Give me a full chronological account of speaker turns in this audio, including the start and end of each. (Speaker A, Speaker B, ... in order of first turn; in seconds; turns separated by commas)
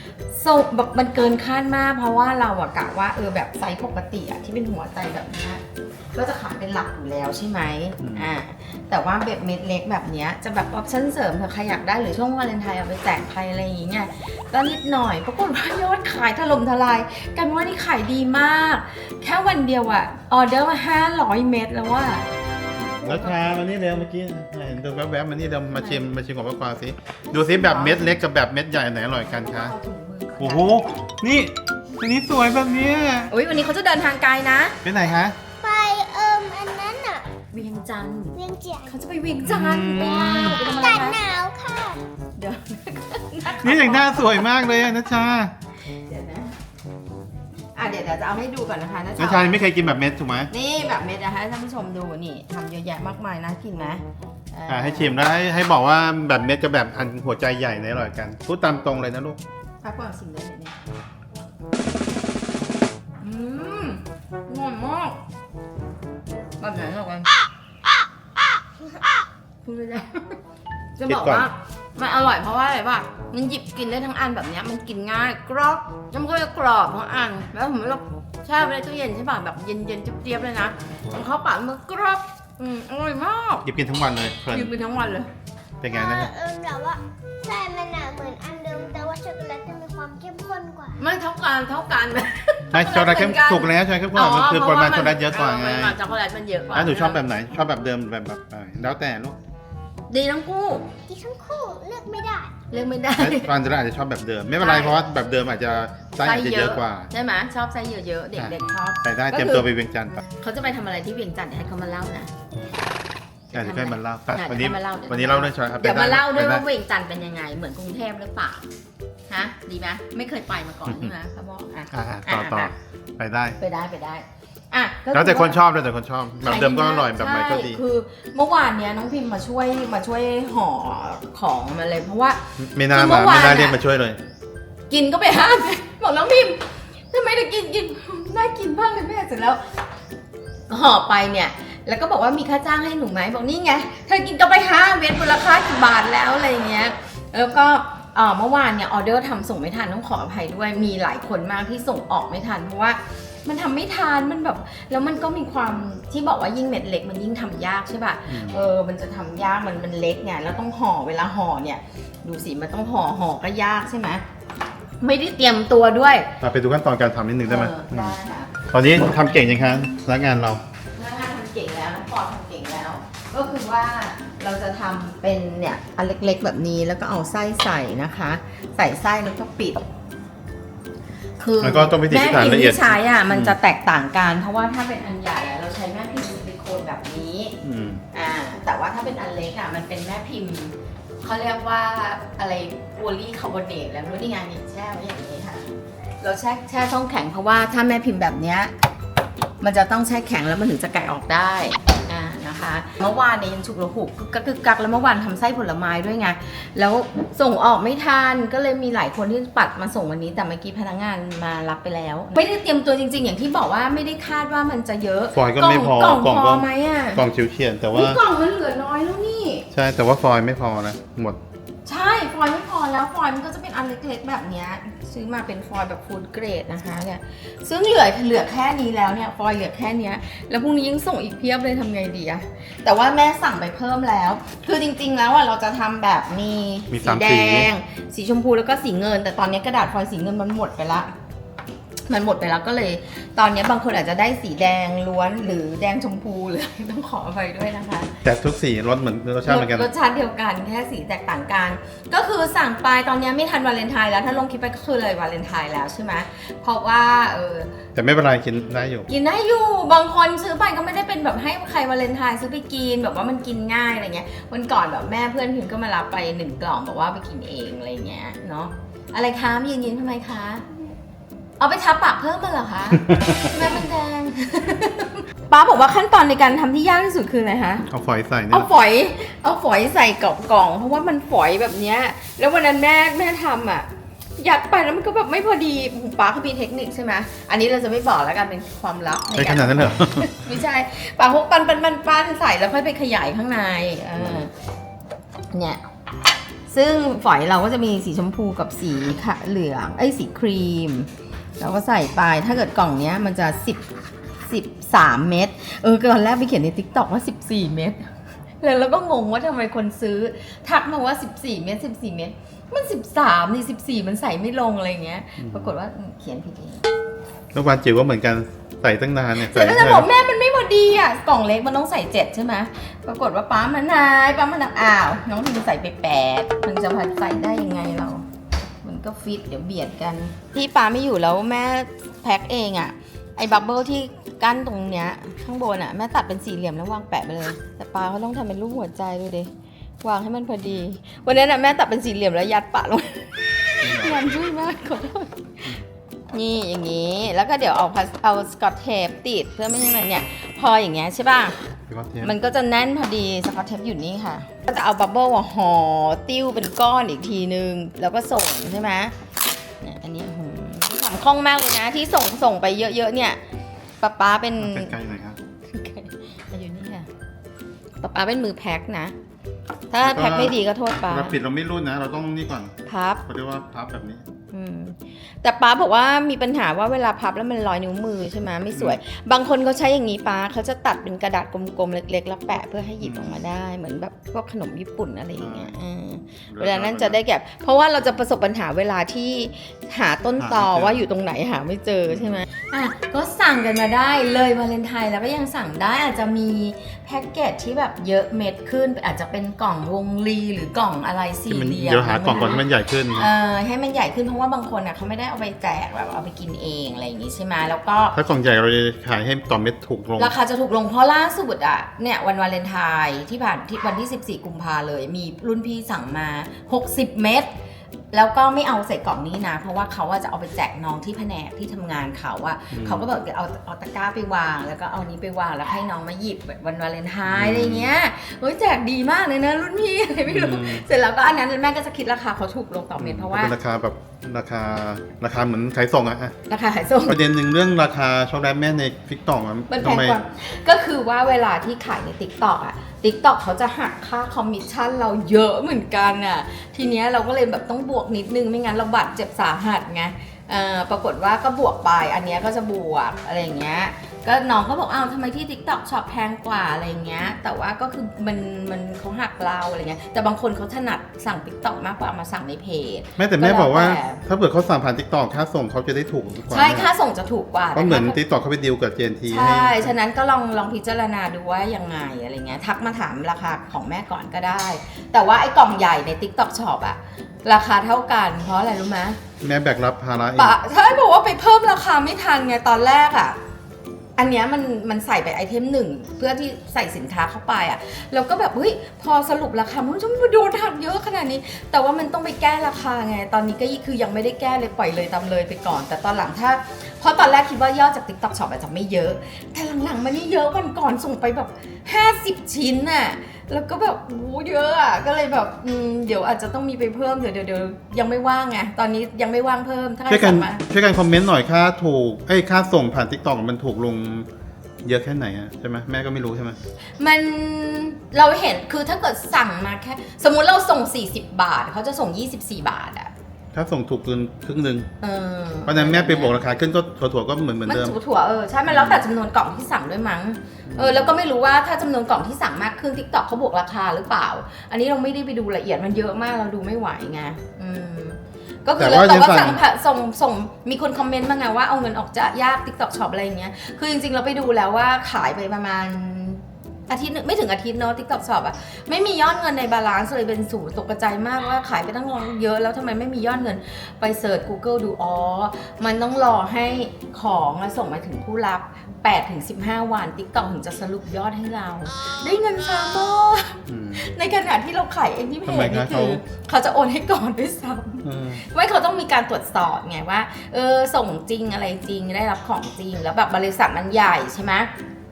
Speaker A: 0.3-5.6, Speaker A: 6.1-22.2, Speaker B: 8.0-8.3, Speaker B: 22.7-29.7, Speaker A: 23.0-23.4, Speaker A: 25.7-26.1, Speaker A: 27.3-28.2, Speaker A: 29.3-30.8, Speaker B: 30.4-33.3, Speaker A: 33.3-34.8, Speaker B: 34.8-35.4, Speaker C: 35.6-37.2, Speaker A: 37.5-41.2, Speaker C: 38.3-38.9, Speaker B: 39.4-40.7, Speaker C: 39.9-42.0, Speaker A: 42.4-44.4, Speaker B: 43.6-45.5, Speaker A: 45.9-46.5, Speaker A: 47.7-49.6, Speaker B: 49.2-50.5, Speaker A: 50.5-55.2, Speaker B: 54.7-59.4, Speaker A: 59.8-60.8, Speaker A: 63.2-65.2, Speaker A: 66.6-67.3, Speaker A: 69.6-70.4, Speaker A: 71.0-83.7, Speaker B: 71.1-71.5, Speaker B: 83.6-84.7, Speaker A: 84.5-85.3, Speaker B: 85.8-86.3, Speaker C: 85.9-91.0, Speaker A: 91.0-97.2, Speaker B: 92.7-96.0, Speaker B: 96.7-99.4, Speaker A: 100.1-100.9, Speaker C: 101.1-102.7, Speaker A: 102.7-103.5, Speaker B: 103.1-107.1, Speaker A: 104.6-105.0, Speaker A: 106.2-112.3, Speaker B: 108.3-110.2, Speaker A: 113.5-118.7, Speaker B: 113.5-116.7, Speaker A: 119.3-122.7, Speaker B: 120.9-121.1, Speaker B: 121.9-123.6, Speaker A: 123.6-125.6, Speaker B: 125.1-127.8, Speaker A: 126.4-133.8, Speaker B: 132.6-134.2, Speaker A: 134.9-139.6, Speaker A: 140.7-164.2, Speaker B: 158.3-158.6, Speaker A: 165.0-166.3, Speaker B: 166.4-168.1, Speaker A: 167.4-168.6, Speaker B: 168.7-170.6, Speaker A: 170.9-179.8, Speaker A: 181.4-187.6, Speaker B: 181.6-183.6, Speaker B: 187.6-188.0, Speaker A: 188.1-195.7, Speaker A: 196.2-198.7, Speaker A: 199.6-217.2, Speaker B: 215.3-218.2, Speaker A: 217.9-219.6, Speaker B: 219.7-221.4, Speaker A: 221.8-241.1, Speaker B: 236.9-237.7, Speaker A: 242.1-248.1, Speaker B: 248.2-249.9, Speaker A: 249.4-257.8, Speaker B: 257.9-259.1, Speaker A: 259.1-270.7, Speaker A: 271.6-277.8, Speaker B: 273.1-273.6, Speaker B: 277.9-278.7, Speaker A: 278.5-294.5, Speaker B: 289.3-290.3, Speaker A: 295.5-295.8, Speaker A: 296.7-303.8, Speaker A: 304.5-308.1, Speaker A: 308.6-316.8, Speaker B: 315.4-315.7, Speaker B: 317.5-320.1, Speaker A: 319.4-328.2, Speaker A: 328.8-339.5, Speaker A: 340.0-351.6, Speaker B: 343.8-344.3, Speaker B: 351.9-352.3, Speaker A: 352.2-359.1, Speaker A: 359.8-363.4, Speaker A: 364.0-364.9, Speaker B: 364.6-365.4, Speaker A: 365.7-367.1, Speaker A: 368.0-369.1, Speaker A: 369.9-371.3, Speaker B: 370.0-372.7, Speaker A: 372.9-373.2, Speaker B: 373.2-374.2, Speaker A: 374.5-402.6, Speaker B: 383.0-383.3, Speaker B: 385.4-385.8, Speaker B: 386.5-387.2, Speaker B: 390.4-391.0, Speaker B: 401.5-403.3, Speaker A: 403.1-408.1, Speaker B: 408.1-410.3, Speaker A: 410.2-417.5, Speaker A: 418.1-433.5, Speaker B: 422.7-423.1, Speaker B: 427.3-427.9, Speaker B: 430.3-430.9, Speaker B: 433.0-436.3, Speaker A: 436.4-437.2, Speaker B: 437.1-440.2, Speaker A: 439.7-464.2, Speaker B: 463.2-466.9, Speaker A: 466.5-468.2, Speaker B: 467.7-469.9, Speaker A: 469.3-479.2, Speaker B: 479.4-480.6, Speaker A: 480.3-483.4, Speaker A: 484.2-510.6, Speaker B: 510.1-514.3, Speaker B: 514.8-516.6, Speaker A: 517.0-523.1, Speaker B: 523.5-524.9, Speaker A: 525.0-526.4, Speaker B: 525.6-528.0, Speaker A: 527.6-574.7, Speaker B: 528.7-529.0, Speaker B: 530.7-531.2, Speaker B: 538.8-539.6, Speaker B: 563.7-564.0, Speaker B: 565.5-566.2, Speaker B: 568.0-568.4